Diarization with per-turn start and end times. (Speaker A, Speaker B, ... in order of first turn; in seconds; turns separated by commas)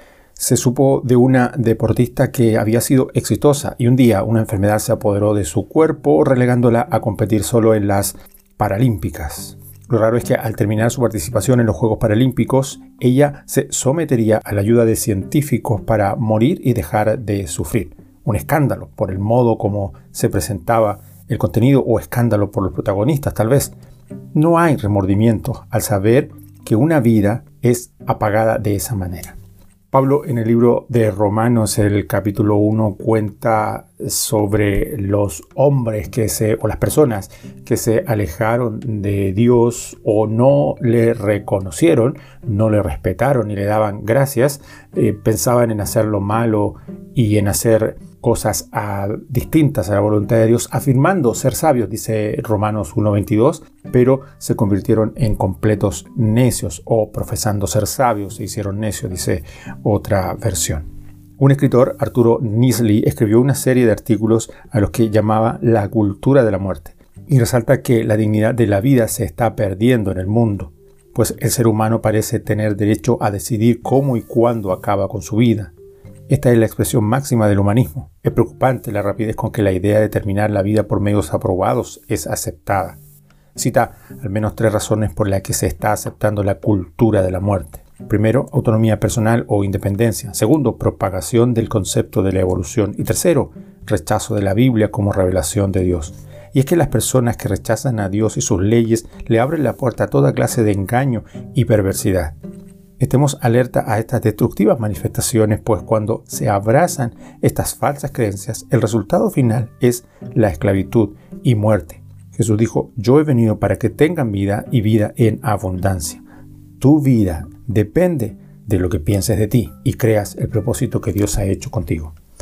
Speaker A: 0.4-23.7, Speaker A: 24.3-29.4, Speaker A: 29.9-60.9, Speaker A: 61.4-75.7, Speaker A: 76.3-83.0, Speaker A: 83.5-102.3, Speaker A: 103.0-116.2, Speaker A: 116.8-122.1